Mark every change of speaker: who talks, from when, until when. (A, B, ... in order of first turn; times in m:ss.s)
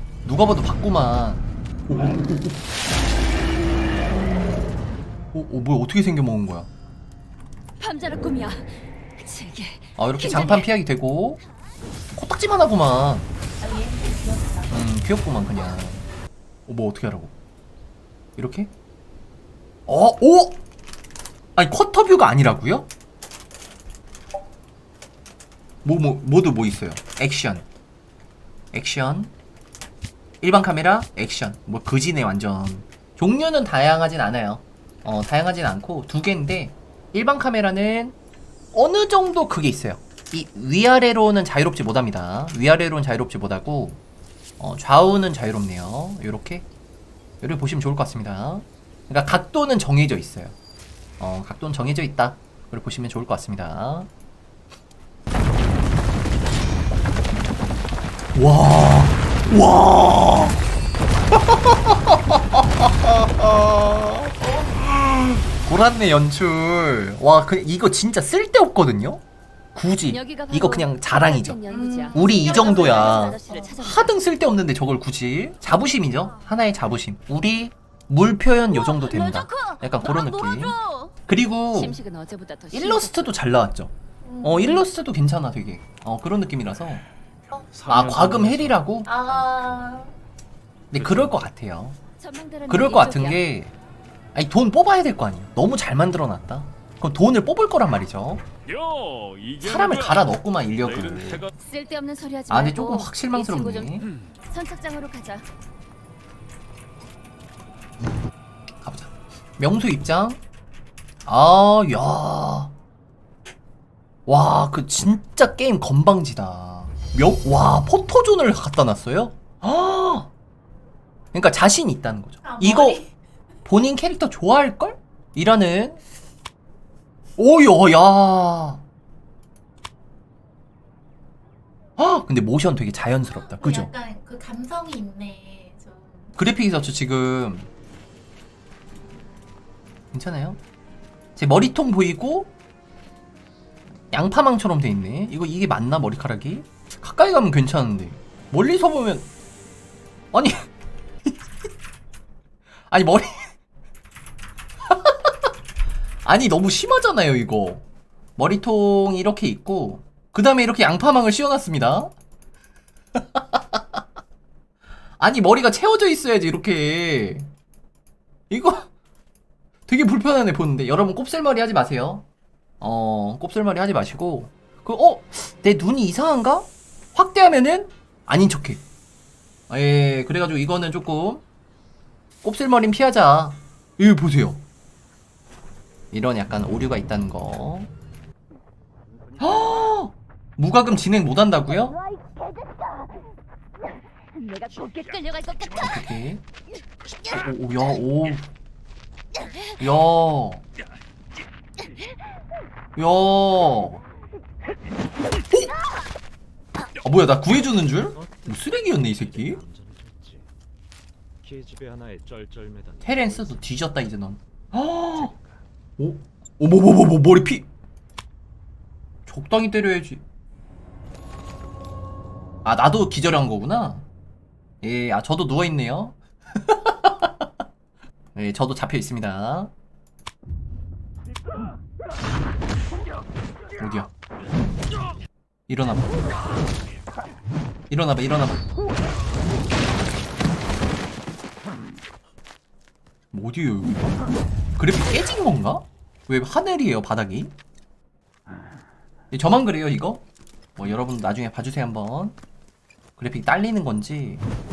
0:00.2-0:02.3 A
0:05.3-0:06.7 A
0:07.8-0:10.7 B
0:10.0-0:11.4 A
0:12.1-0:13.3 A
0:13.6-0:14.7 C
0:14.7-0:16.0 A
0:16.7-0:17.3 A
0:18.4-0:18.7 A
0:19.9-0:20.6 A
0:21.6-0:22.9 A
0:25.8-0:27.7 A
0:28.7-0:29.3 A
0:30.4-0:38.2 A
0:38.7-0:44.0 A
0:44.6-0:46.7 A
0:47.4-0:50.6 A
0:51.2-0:54.1 A
0:58.4-1:00.6 A
1:01.3-1:04.4 A
1:04.4-1:04.7 C
1:05.1-1:09.2 A
1:09.8-1:11.6 A
1:10.1-1:14.1 B
1:11.7-1:13.8 C
1:12.1-1:22.0 A
1:18.7-1:21.1 B
1:21.7-1:23.3 B
1:22.7-1:27.0 A
1:24.3-1:24.6 C
1:27.7-1:28.8 D
1:27.9-1:29.5 A
1:29.3-1:30.1 C
1:30.9-1:32.0 A
1:31.0-1:31.3 D
1:32.2-1:33.4 B
1:32.7-1:33.7 A
1:34.3-1:38.4 A
1:38.7-1:40.2 D
1:39.6-1:41.5 A
1:40.8-1:41.5 D
1:41.5-1:45.4 B
1:42.5-1:44.1 A
1:48.8-1:50.4 A
1:51.3-1:52.7 A
1:54.3-2:00.3 A
2:01.3-2:03.0 A
2:02.5-2:02.9 C
2:03.7-2:06.0 A
2:07.4-2:08.8 A
2:12.0-2:13.9 A
2:13.6-2:16.4 C
2:16.4-2:17.7 A
2:20.1-2:20.6 A
2:21.4-2:22.5 A
2:24.1-2:29.3 A
2:30.3-2:30.7 A
2:32.9-2:33.5 A
2:34.9-2:35.3 A
2:36.2-2:37.8 A
2:38.4-2:42.1 A
2:43.2-2:44.0 A
2:45.2-2:47.5 A
2:48.5-2:48.9 A
2:49.9-2:52.2 A
2:52.8-2:58.8 A
2:59.7-3:01.4 A
3:02.4-3:04.6 A
3:06.1-3:07.9 A
3:09.3-3:09.7 D
3:09.4-3:12.0 A
3:14.4-3:16.1 B
3:15.7-3:16.4 A
3:17.3-3:18.5 A
3:19.8-3:20.6 A
3:23.0-3:24.0 A
3:27.0-3:29.6 A
3:28.2-3:28.5 D
3:29.2-3:30.5 D
3:31.4-3:33.6 D
3:33.0-3:35.3 A
3:35.3-3:35.6 D
3:36.0-3:37.7 A
3:39.3-3:40.2 A
3:42.6-3:44.1 A
3:44.8-3:47.5 A
3:48.4-3:49.7 A
3:53.8-3:54.1 A
3:55.7-3:56.2 A
3:57.9-3:58.7 A
4:03.3-4:04.2 A
4:04.8-4:07.5 A
4:09.3-4:10.2 A
4:10.8-4:12.4 A
4:13.2-4:14.4 A